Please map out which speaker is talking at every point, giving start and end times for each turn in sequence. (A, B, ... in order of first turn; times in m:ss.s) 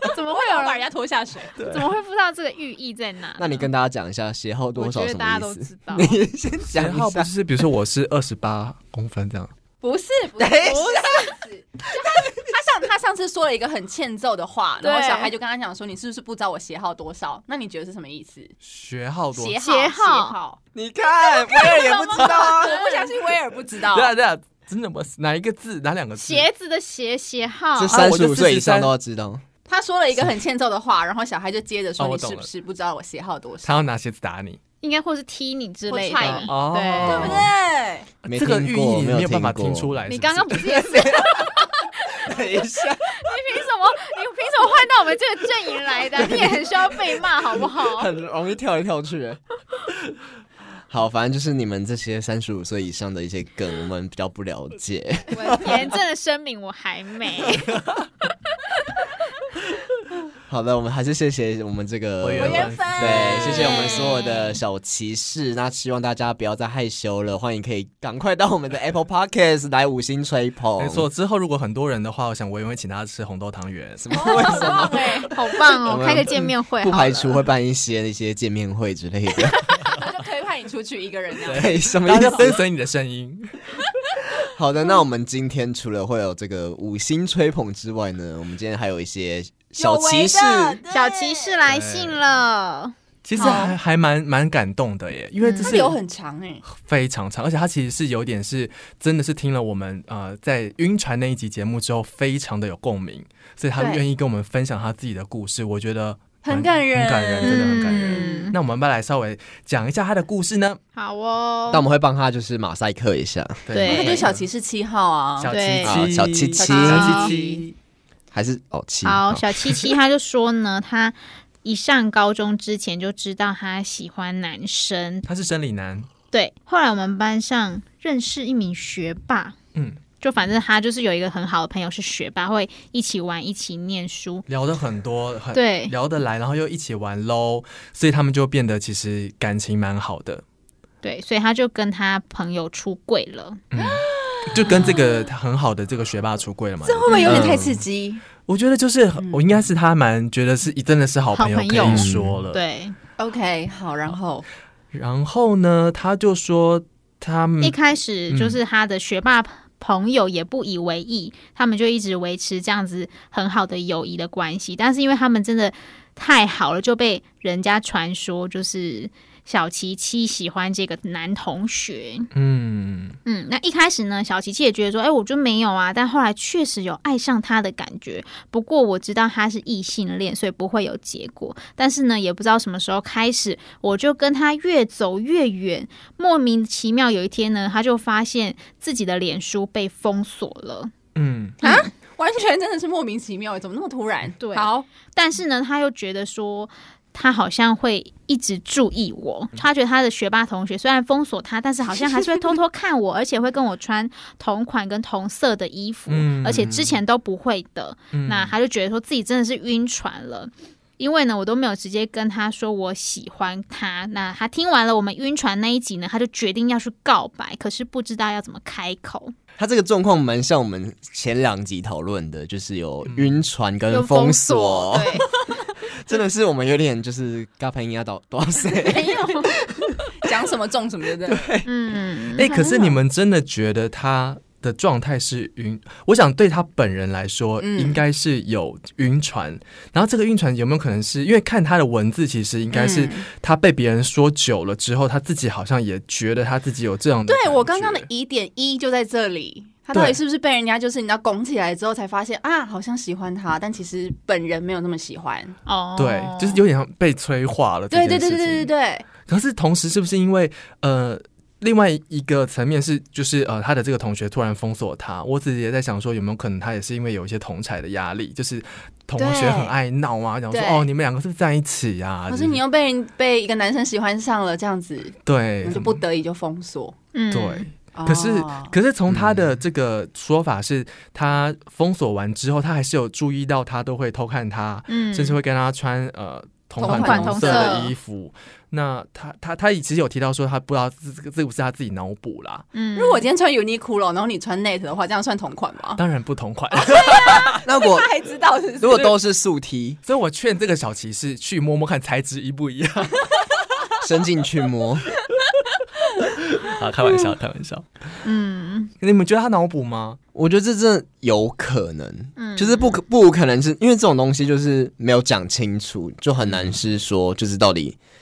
0:00.1-0:00.9 A
0:00.2-0:01.5 B
0:01.6-0:01.9 C
0:01.6-0:03.7 A
0:03.4-0:07.3 D
0:04.8-0:06.2 A
0:06.7-0:09.5 C
0:09.8-0:18.5 B
0:10.4-0:11.3 D
0:12.2-0:12.5 D
0:14.8-0:15.3 A
0:18.6-0:19.6 C
0:19.3-0:20.6 B
0:19.6-0:20.4 A
0:20.7-0:22.9 D
0:21.5-0:23.2 A
0:21.5-0:24.1 B
0:23.7-0:26.5 C
0:26.2-0:28.0 A
0:27.8-0:29.4 D
0:27.9-0:28.9 C
0:29.7-0:33.8 B
0:32.0-0:32.5 C
0:33.6-0:34.6 C
0:34.8-0:37.4 A
0:35.9-0:38.1 B
0:36.2-0:37.5 C
0:38.3-0:39.9 D
0:38.3-0:41.1 C
0:40.1-0:48.1 A
0:40.9-0:41.5 D
0:42.2-0:43.1 D
0:46.1-0:49.4 D
0:50.9-0:55.9 D
0:55.3-0:57.9 A
0:55.4-0:55.7 B
1:00.5-1:11.1 D
1:02.2-1:03.8 C
1:02.4-1:04.2 B
1:03.6-1:04.6 A
1:10.8-1:14.7 C
1:14.0-1:20.0 D
1:14.1-1:15.3 B
1:15.3-1:17.4 A
1:19.7-1:21.8 B
1:21.5-1:22.6 D
1:21.5-1:23.8 C
1:24.5-1:30.8 D
1:29.8-1:31.6 B
1:30.9-1:33.6 A
1:31.7-1:32.2 C
1:33.2-1:36.0 C
1:33.4-1:33.8 B
1:35.4-1:35.9 A
1:35.6-1:36.6 B
1:36.7-1:50.8 C
1:43.8-1:44.0 B
1:46.4-1:48.5 B
1:47.4-1:48.6 A
1:51.0-1:51.8 A
1:51.7-1:53.7 D
1:53.7-1:54.5 C
1:53.7-1:54.2 A
1:53.8-1:55.5 B
1:55.4-1:57.8 C
1:55.5-1:56.0 A
1:55.8-1:57.2 D
1:56.6-1:57.6 B
1:56.8-1:57.3 A
1:58.3-1:59.5 D
1:59.0-2:05.3 A
2:05.3-2:06.1 C
2:06.3-2:09.6 A
2:09.8-2:10.0 C
2:10.2-2:14.5 A
2:14.5-2:20.4 C
2:15.5-2:15.9 A
2:21.0-2:23.6 A
2:23.7-2:27.7 C
2:23.8-2:25.2 B
2:24.6-2:25.0 A
2:26.8-2:28.2 B
2:27.1-2:27.4 A
2:27.3-2:27.8 D
2:28.5-2:32.6 C
2:31.3-2:33.0 A
2:31.8-2:32.4 D
2:33.2-2:34.4 B
2:34.9-2:37.8 C
2:37.6-2:52.3 A
2:38.3-2:38.6 C
2:52.3-2:53.2 C
2:53.3-3:10.9 A
3:11.2-3:11.6 C
3:11.6-3:11.9 A
3:11.6-3:14.9 B
3:14.4-3:39.3 A
3:26.1-3:26.9 C
3:28.1-3:28.5 C
3:39.6-3:45.3 D
3:43.0-3:43.4 C
3:43.9-3:45.3 A
3:45.8-3:50.2 D
3:48.8-3:51.5 B
3:51.2-3:51.7 D
3:51.6-3:52.5 A
3:52.4-4:08.1 C
3:52.4-3:53.0 B
3:57.6-3:58.0 B
4:02.7-4:03.3 B
4:07.3-4:15.6 B
4:09.9-4:10.2 C
4:15.7-4:16.6 A
4:16.0-4:18.7 C
4:17.9-4:19.1 B
4:19.3-4:32.6 C
4:29.2-4:29.8 B
4:30.5-4:30.9 B
4:32.3-4:37.0 B
4:35.3-4:36.0 C
4:37.1-4:37.7 A
4:37.3-4:52.7 C
4:38.0-4:38.7 B
4:39.1-4:39.4 D
4:44.9-4:45.4 A
4:46.8-4:47.9 B
4:46.8-4:47.9 A
4:52.7-4:53.3 A
4:52.9-4:56.0 B
4:56.0-4:57.6 C
4:56.8-4:59.1 B
4:57.6-4:58.1 D
4:58.8-5:00.0 D
5:00.1-5:03.4 C
5:04.0-5:05.1 D
5:06.2-5:07.9 C
5:08.2-5:08.9 A
5:09.0-5:10.2 C
5:10.3-5:18.0 D
5:12.4-5:13.0 A